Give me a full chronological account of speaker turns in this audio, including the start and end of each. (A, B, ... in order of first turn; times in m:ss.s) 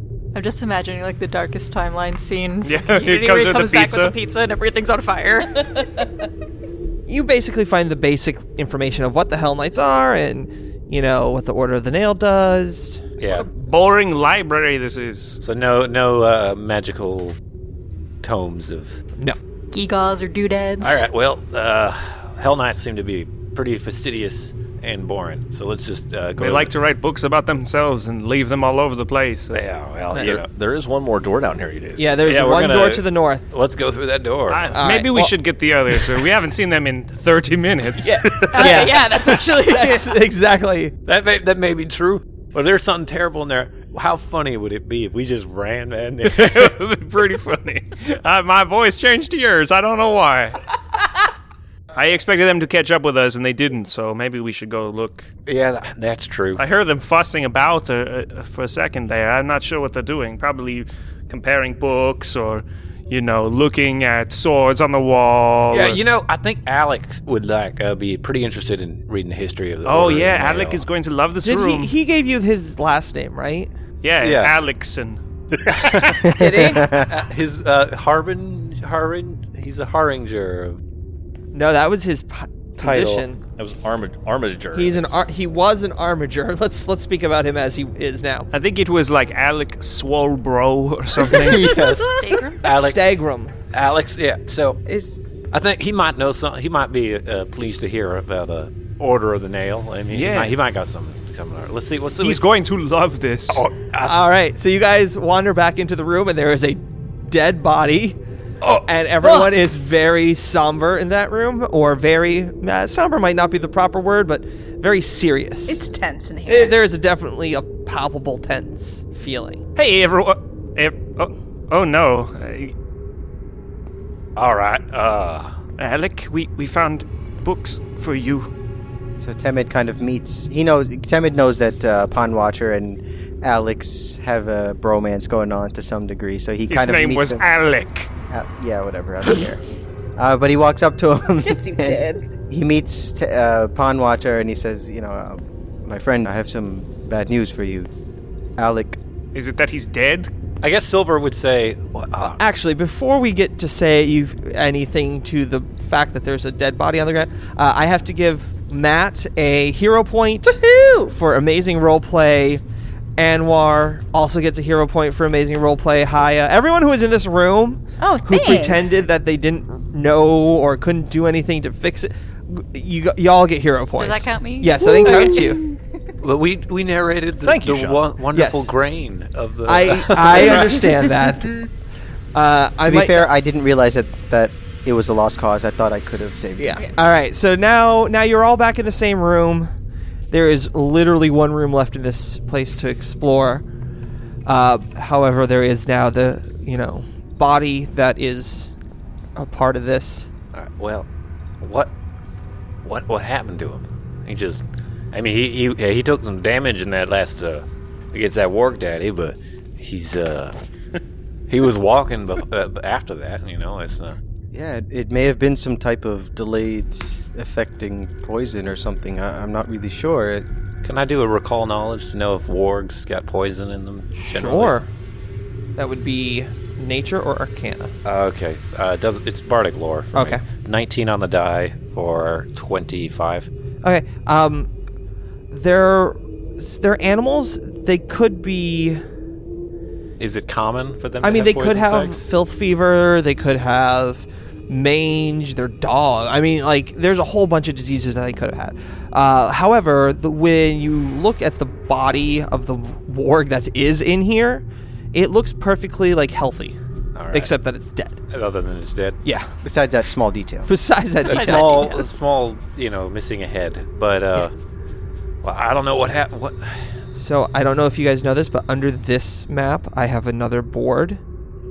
0:00.3-0:06.1 A
0:02.6-0:04.2 B
0:07.1-0:13.0 C
0:13.2-0:13.5 D
0:13.3-0:15.4 B
0:15.4-0:17.4 D
0:18.2-0:19.0 D
0:19.7-0:21.0 A
0:20.8-0:26.8 D
0:26.4-0:29.6 B
0:29.5-0:30.5 D
0:30.1-0:32.3 E
0:32.0-0:33.5 C
0:32.2-0:34.8 D
0:34.5-0:38.8 B
0:34.7-0:35.4 C
0:38.0-0:41.0 C
0:38.5-0:40.1 A
0:41.0-0:46.7 D
0:46.2-0:50.6 B
0:51.9-0:55.3 B
0:55.5-0:56.6 D
0:56.6-1:06.0 B
1:05.7-1:10.9 D
1:09.8-1:11.9 B
1:11.4-1:13.7 C
1:14.0-1:15.2 B
1:14.2-1:14.6 D
1:15.6-1:20.8 D
1:16.2-1:17.1 F
1:16.4-1:16.9 G
1:21.5-1:23.4 C
1:22.8-1:23.3 D
1:23.6-1:25.2 E
1:24.7-1:28.5 C
1:28.5-1:31.9 B
1:31.2-1:33.1 D
1:32.2-1:32.6 A
1:32.6-1:33.5 C
1:33.7-1:34.8 D
1:34.9-1:35.1 G
1:35.5-1:42.4 D
1:40.1-1:40.6 B
1:42.2-1:43.7 B
1:43.5-1:44.2 D
1:44.0-1:48.2 C
1:48.6-1:49.5 D
1:48.8-1:55.8 C
1:55.7-1:56.8 G
1:56.5-1:59.6 C
1:59.8-2:02.7 B
2:04.4-2:05.6 D
2:05.8-2:08.5 B
2:09.2-2:17.4 F
2:16.7-2:18.1 B
2:18.3-2:19.6 F
2:20.2-2:27.9 F
2:21.4-2:22.2 G
2:28.6-2:29.0 F
2:29.3-2:30.3 B
2:30.6-2:32.4 D
2:32.4-2:42.6 C
2:40.5-2:41.1 G
2:43.2-2:55.6 C
2:48.0-2:48.8 G
2:54.0-2:55.8 A
2:56.2-3:01.0 D
2:57.4-2:58.0 E
2:58.3-2:58.7 C
2:59.7-3:01.6 C
3:02.3-3:03.3 C
3:02.8-3:06.8 F
3:06.6-3:09.7 C
3:10.3-3:13.6 C
3:14.5-3:18.7 C
3:19.4-3:20.3 C
3:20.5-3:21.1 D
3:21.6-3:21.9 D
3:22.8-3:30.6 D
3:31.5-3:34.2 D
3:34.5-3:40.5 F
3:40.8-3:44.8 D
3:44.2-3:44.9 C
3:45.8-3:47.9 C
3:48.0-3:53.5 D
3:50.1-3:50.4 C
3:53.8-3:54.7 C
3:55.5-3:59.0 C
4:00.2-4:02.3 D
4:01.2-4:16.8 C
4:17.2-4:17.6 D
4:17.3-4:18.2 C
4:18.3-4:19.2 D
4:19.2-4:19.5 C
4:19.6-4:20.7 F
4:20.7-4:21.9 C
4:21.2-4:24.5 D
4:21.2-4:22.1 A
4:25.4-4:26.8 D
4:27.2-4:31.2 C